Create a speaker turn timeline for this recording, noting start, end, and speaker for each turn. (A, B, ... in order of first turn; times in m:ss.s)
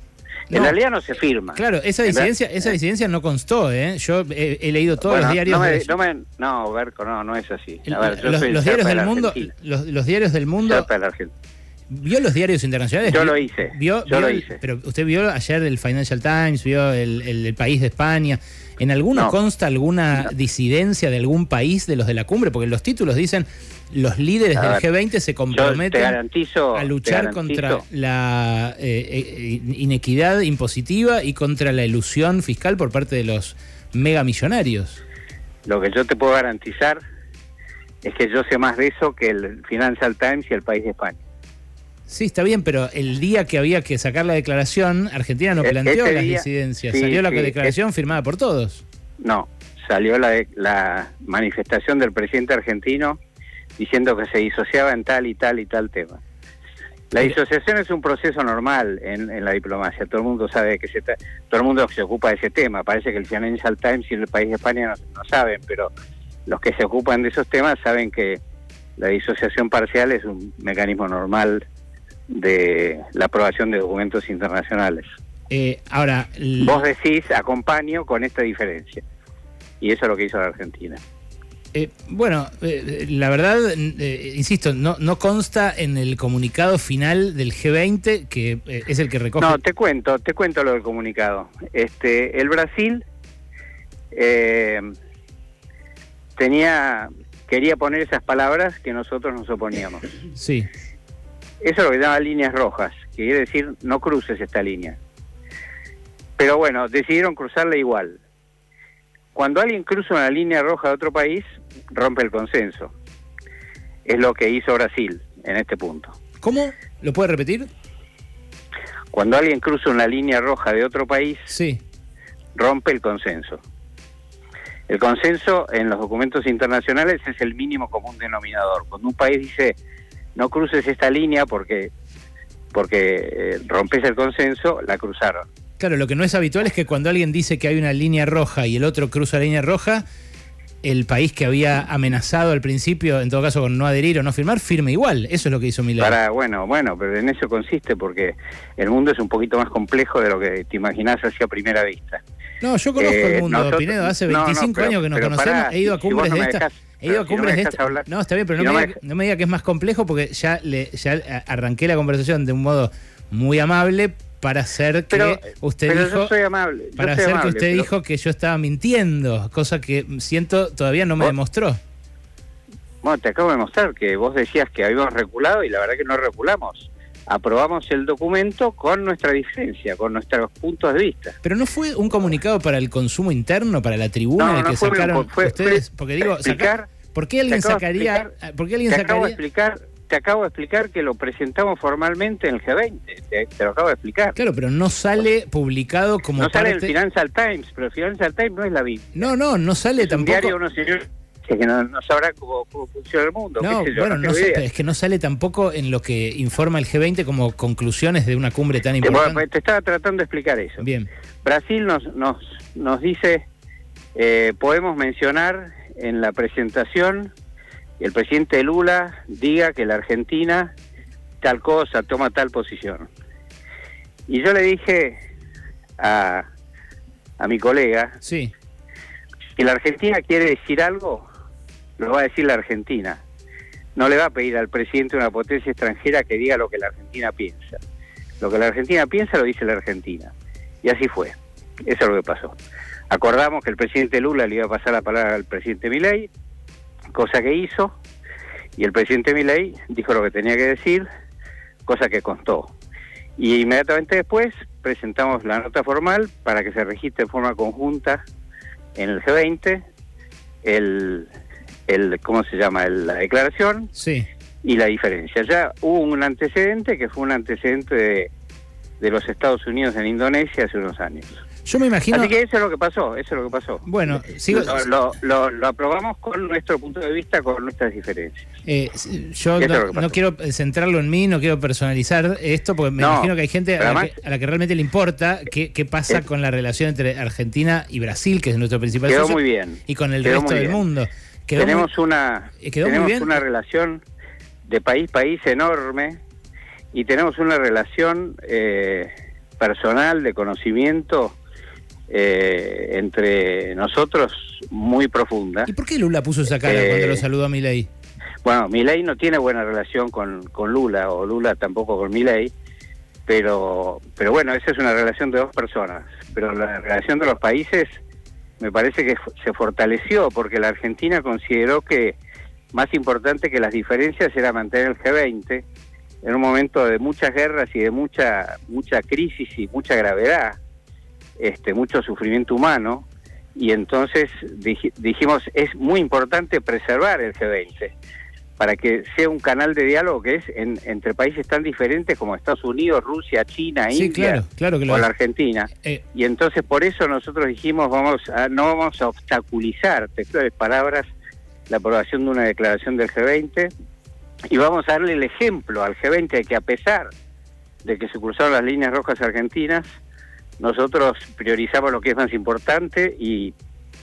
0:00.5-0:00.7 A
0:00.5-0:02.3 B
0:01.5-0:05.9 A
0:05.0-0:09.5 B
0:07.9-0:10.9 A
0:10.6-0:11.3 B
0:11.9-0:26.2 A
0:13.0-0:14.6 B
0:24.6-0:24.8 B
0:25.5-0:27.8 B
0:26.7-0:35.0 A
0:35.6-0:37.0 B
0:38.0-0:41.2 B
0:42.1-0:48.8 A
0:45.6-0:47.7 B
0:49.2-0:53.2 B
0:53.8-0:56.2 B
0:57.1-1:05.9 B
1:06.5-1:08.4 B
1:09.0-1:11.6 B
1:12.3-1:15.0 B
1:15.5-1:16.8 A
1:16.6-1:19.0 B
1:19.8-1:21.0 B
1:21.7-1:29.6 A
1:29.4-1:33.0 B
1:34.1-1:34.9 B
1:36.4-1:40.2 B
1:40.3-1:40.7 A
1:41.6-1:45.0 B
1:46.4-1:48.2 B
1:49.3-1:52.9 B
1:54.0-1:56.1 B
1:56.4-1:57.7 A
1:59.1-2:01.5 B
2:01.5-2:01.8 A
2:02.6-2:03.6 B
2:04.9-2:09.8 B
2:10.4-2:11.9 B
2:12.7-2:15.4 B
2:15.8-2:20.0 A
2:20.8-2:26.2 A
2:26.0-2:32.2 B
2:32.6-2:46.3 A
2:33.0-2:39.0 B
2:45.1-2:47.9 B
2:47.0-2:51.8 A
2:53.0-3:01.4 B
3:01.4-3:09.4 A
3:04.4-3:06.9 B
3:07.5-3:08.3 B
3:08.9-3:14.4 B
3:14.4-3:16.9 A
3:16.4-3:19.3 B
3:19.1-3:20.6 A
3:20.0-3:24.6 B
3:23.6-3:29.4 A
3:29.0-3:30.8 B
3:30.8-3:31.1 A
3:31.4-3:33.4 B
3:34.1-3:37.3 B
3:38.0-3:40.7 B
3:41.4-3:43.1 B
3:44.3-3:45.2 B
3:46.0-3:46.5 B
3:47.4-3:48.2 B
3:48.2-3:48.5 A
3:49.6-3:51.2 B
3:52.0-3:53.2 B
3:54.0-3:57.8 B
3:58.4-4:02.6 B
4:03.1-4:06.3 B
4:07.1-4:08.0 B
4:08.8-4:11.0 B
4:11.8-4:12.7 B
4:13.4-4:18.2 B
4:19.0-4:19.8 B
4:20.6-4:21.3 B
4:21.9-4:23.9 B
4:23.9-4:24.3 A
4:24.6-4:28.3 B
4:29.0-4:31.4 B
4:31.6-4:32.3 A
4:32.1-4:38.4 B
4:33.8-4:34.8 A
4:38.6-4:51.9 A
4:39.6-4:40.1 B
4:43.0-4:44.2 B
4:49.1-4:50.8 B
4:51.6-4:54.0 B
4:52.6-4:53.4 A
4:54.6-4:56.2 B
4:56.9-5:01.4 B
5:02.1-5:05.7 B
5:05.7-5:07.9 A
5:06.5-5:07.2 B
5:08.4-5:12.5 B
5:13.3-5:17.9 B
5:18.6-5:22.2 B
5:22.7-5:25.6 B
5:26.2-5:30.6 B
5:31.4-5:37.9 B
5:38.6-5:51.1 B
5:43.9-5:45.0 A
5:51.7-5:53.7 B
5:54.5-5:57.1 B
5:57.8-5:59.8 B
6:00.6-6:03.5 B